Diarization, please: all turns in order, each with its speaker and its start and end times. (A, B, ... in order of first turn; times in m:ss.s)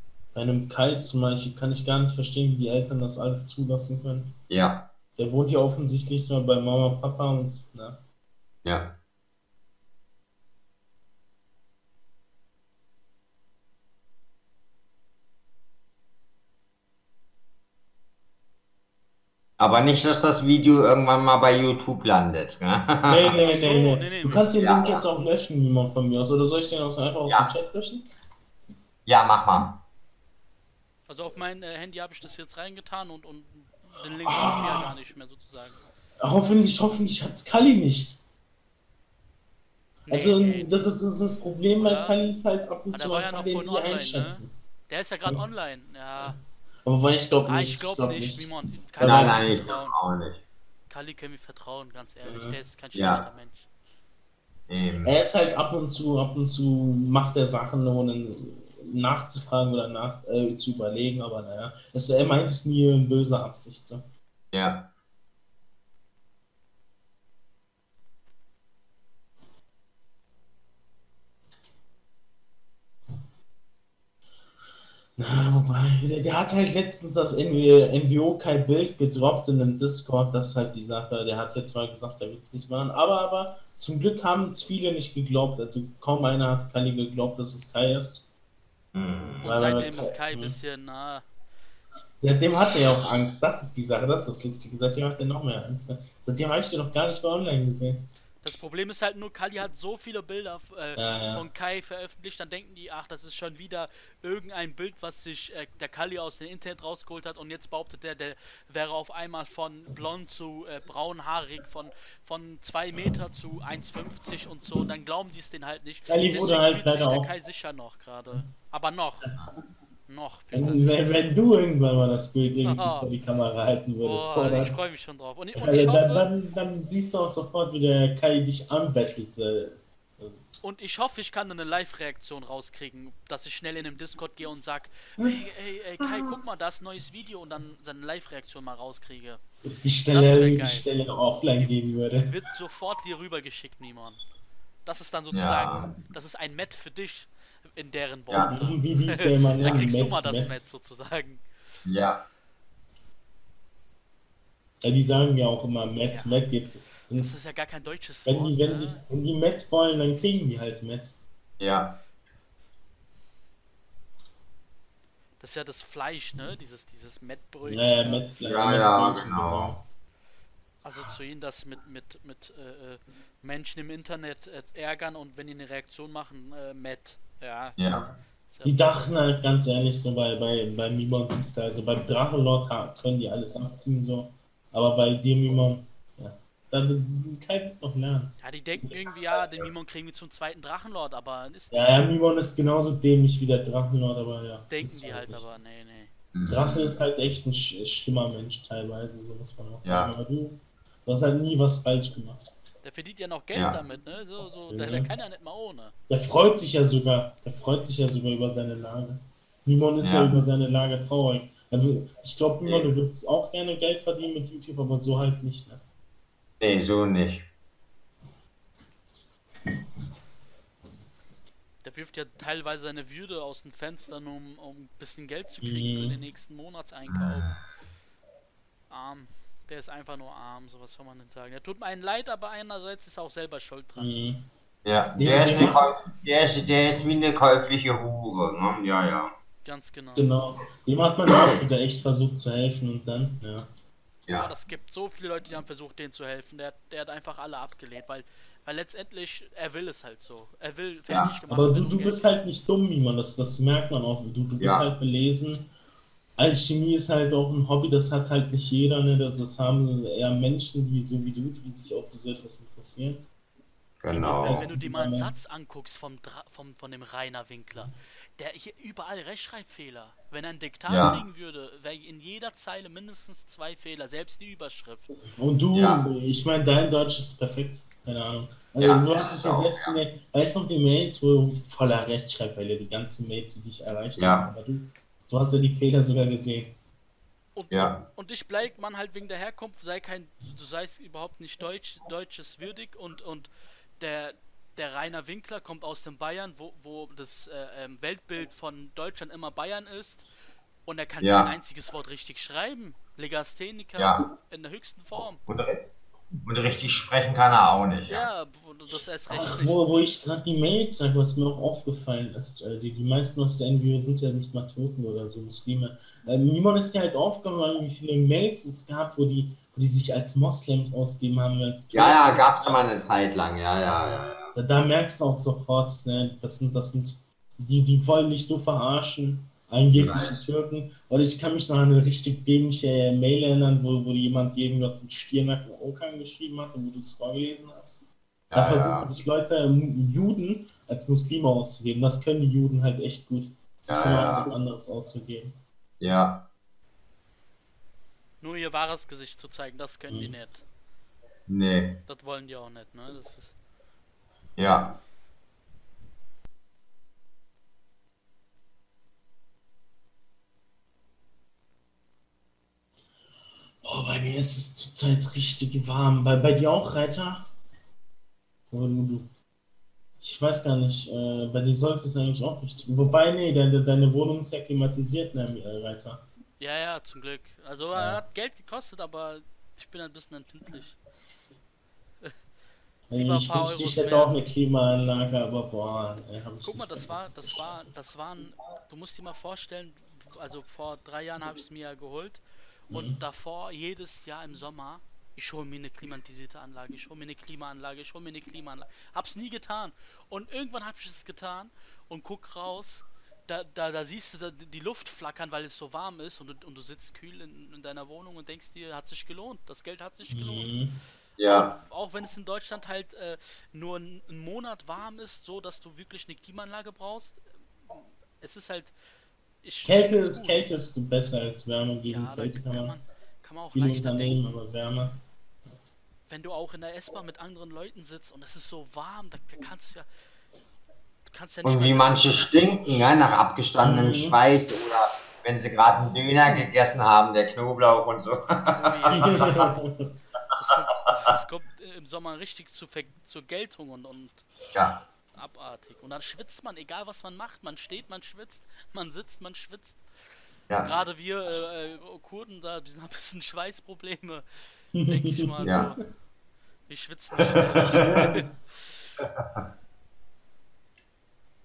0:00.4-0:04.3 A
0:04.5-0:04.9 B
0:05.2-0:08.0 A
0:08.6-0:08.9 B
0:19.6-0:23.3 B
0:23.1-0:28.1 A
0:23.4-0:24.5 C
0:24.6-0:25.1 B
0:29.1-0:29.8 B
0:31.1-0:35.8 C
0:34.3-0:34.9 A
0:36.2-0:38.2 A
0:40.1-0:40.9 C
0:40.1-0:44.5 A
0:41.8-0:42.2 C
0:42.9-0:46.4 C
0:46.9-0:49.5 A
0:47.5-0:50.0 C
0:49.0-0:50.4 B
0:50.9-0:53.7 C
0:52.2-0:52.6 A
0:52.9-0:53.2 B
0:54.7-0:55.1 B
0:55.0-1:04.0 A
1:04.5-1:04.9 B
1:15.2-1:28.2 A
1:28.9-1:29.6 B
1:29.4-1:31.3 C
1:29.4-1:30.6 A
1:32.2-1:38.0 A
1:38.4-1:59.3 C
1:41.0-1:41.5 A
1:56.1-1:57.4 A
2:00.1-2:01.0 C
2:00.5-2:04.8 A
2:02.6-2:03.1 C
2:04.0-2:06.3 C
2:05.6-2:10.4 A
2:10.6-2:19.4 C
2:16.0-2:16.4 A
2:19.7-2:22.3 A
2:20.1-2:20.9 C
2:22.2-2:24.2 C
2:24.8-2:31.4 C
2:25.3-2:26.0 B
2:28.3-2:28.6 B
2:28.4-2:30.6 A
2:29.6-2:29.8 B
2:31.9-2:32.2 B
2:34.8-2:37.3 A
2:36.1-2:36.4 C
2:37.1-2:39.0 C
2:38.3-2:41.1 A
2:41.6-2:42.0 B
2:45.4-2:48.3 C
2:47.6-2:49.8 A
2:48.5-2:49.8 B
2:50.8-2:58.7 C
2:57.8-2:58.0 B
2:58.6-3:08.3 A
3:08.4-3:12.1 C
3:11.7-3:15.4 A
3:14.7-3:16.1 C
3:16.3-3:17.0 B
3:16.5-3:22.4 A
3:19.8-3:20.1 B
3:22.8-3:25.9 C
3:23.5-3:23.8 B
3:24.7-3:25.1 A
3:26.1-3:35.8 A
3:30.0-3:30.3 B
3:36.6-3:37.5 B
3:41.8-3:47.6 C
3:45.6-3:46.2 A
3:47.1-3:47.6 B
3:48.9-3:54.1 C
3:54.0-3:54.4 A
3:54.8-3:59.3 B
3:55.2-3:55.9 A
3:59.6-4:00.3 C
4:00.2-4:03.7 A
4:04.3-4:04.5 B
4:04.3-4:12.4 C
4:11.1-4:11.3 B
4:11.5-4:15.7 A
4:14.6-4:14.9 B
4:16.4-4:23.2 A
4:24.0-4:24.6 B
4:24.1-4:25.3 A
4:24.2-4:35.2 C
4:30.9-4:31.2 B
4:35.3-4:46.7 A
4:35.7-4:36.0 B
4:38.8-4:40.0 B
4:44.2-4:44.5 B
4:47.6-5:00.3 C
4:47.7-4:48.0 B
5:00.8-5:05.4 C
5:01.2-5:01.5 B
5:04.0-5:04.2 B
5:05.5-5:05.8 B
5:06.5-5:08.3 B
5:08.1-5:09.8 C
5:09.3-5:22.9 A
5:21.9-5:24.5 B
5:23.9-5:38.0 A
5:30.0-5:30.5 B
5:38.5-5:39.1 B
5:38.6-5:45.6 A
5:43.9-5:44.5 B
5:46.0-5:46.5 B
5:48.4-5:50.6 C
5:50.1-5:50.4 A
5:51.5-5:52.0 B
5:52.1-5:53.6 C
5:54.6-5:55.0 B
6:03.8-6:07.5 A
6:08.7-6:09.3 A
6:10.2-6:16.2 A
6:16.6-6:21.0 C
6:18.0-6:18.2 A
6:23.1-6:27.9 A
6:23.2-6:24.3 C
6:26.6-6:50.7 C
6:32.9-6:33.2 A
6:50.3-6:50.9 A
6:51.4-6:51.7 B
6:51.4-6:59.0 C
6:59.6-7:00.7 C
6:59.8-7:02.9 A
7:02.1-7:04.4 C
7:03.7-7:05.2 A
7:06.3-7:10.1 C
7:11.3-7:12.7 C
7:11.6-7:19.7 B
7:13.8-7:14.4 A
7:18.7-7:19.8 C
7:19.1-7:20.1 A
7:20.6-7:24.5 C
7:24.7-7:25.0 B
7:25.4-7:30.0 C
7:30.8-7:36.1 C
7:35.0-7:35.9 A
7:36.9-7:39.0 C
7:37.9-7:38.5 A
7:39.2-7:39.6 B